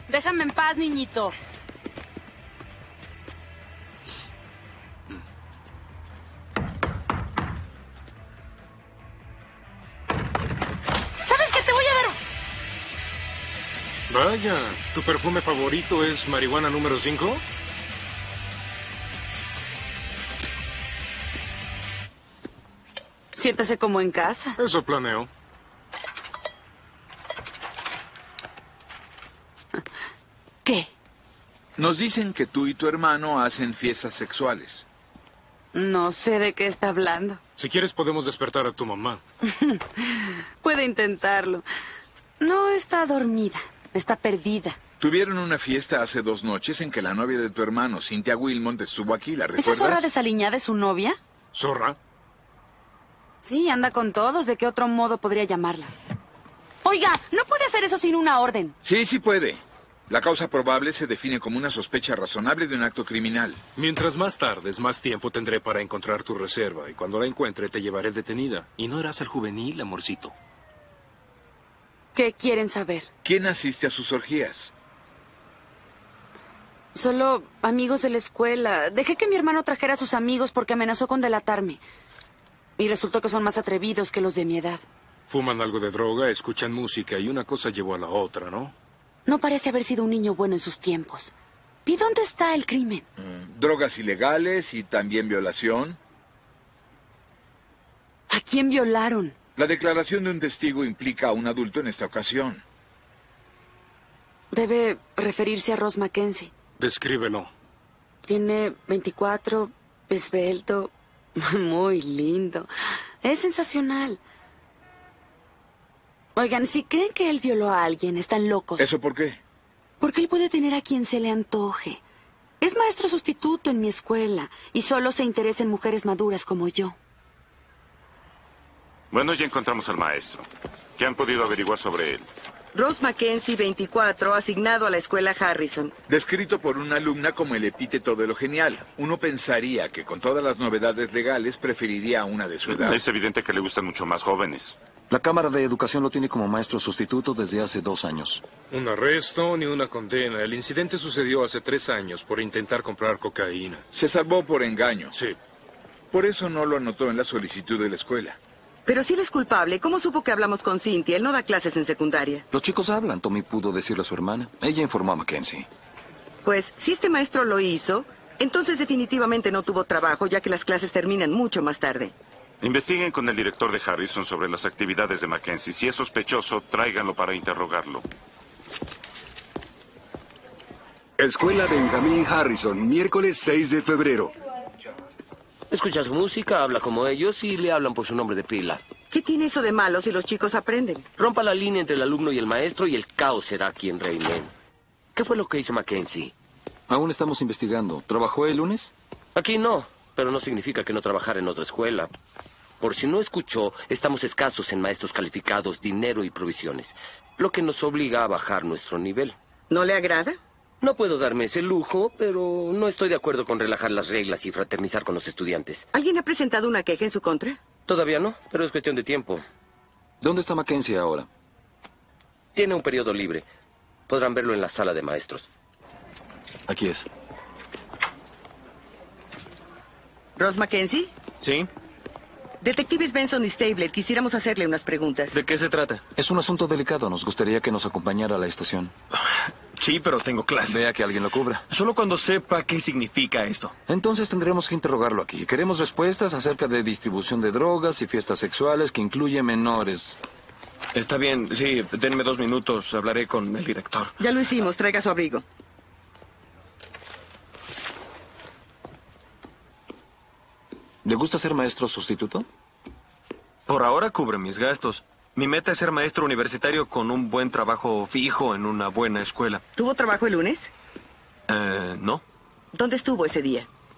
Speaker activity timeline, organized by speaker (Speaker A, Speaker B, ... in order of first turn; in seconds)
Speaker A: 0.1-1.3, 23.4-24.6, 30.6-30.9, 35.7-37.4, 39.6-41.6, 42.4-44.8, 49.6-51.2, 53.4-55.9, 56.8-58.8, 72.2-73.1, 77.0-81.8, 82.8-84.8, 89.3-91.3, 91.9-93.0, 98.3-99.3, 104.5-106.5, 108.2-112.7, 113.2-114.2, 116.4-118.9, 120.0-122.0, 122.6-127.0
Speaker B: 14.1-17.4, 24.6-25.3, 37.6-39.2, 51.5-52.0, 63.8-70.3, 85.3-88.7, 106.8-107.5, 148.7-153.8
Speaker C: 31.8-34.9, 45.0-50.1, 58.8-63.6, 73.2-74.7, 93.2-96.0, 99.6-102.6, 118.8-119.4, 136.1-143.0, 153.9-155.2, 156.1-158.4
Speaker D: 129.1-130.5, 131.0-132.3, 142.7-144.8, 172.6-178.1
Speaker E: 132.8-135.9, 158.9-162.4, 166.4-172.1, 189.1-191.1, 209.7-210.4, 215.9-217.6, 230.4-231.1, 232.6-235.4, 254.2-255.4, 269.8-270.7, 272.7-273.7
Speaker F: 145.1-148.4, 162.5-165.7, 196.9-198.9, 220.2-221.3, 226.7-227.1, 236.2-238.9, 240.7-241.6, 243.9-250.2, 261.0-262.5
Speaker G: 181.2-184.3
Speaker H: 185.7-188.8, 191.2-194.5, 195.2-196.3, 199.4-202.1, 202.8-209.3, 210.8-215.8, 217.9-219.4, 222.6-223.5, 224.1-225.5
Speaker I: 231.4-231.7, 235.3-236.0, 239.8-240.8, 241.7-243.8, 250.9-254.2, 263.7-269.6, 271.5-272.2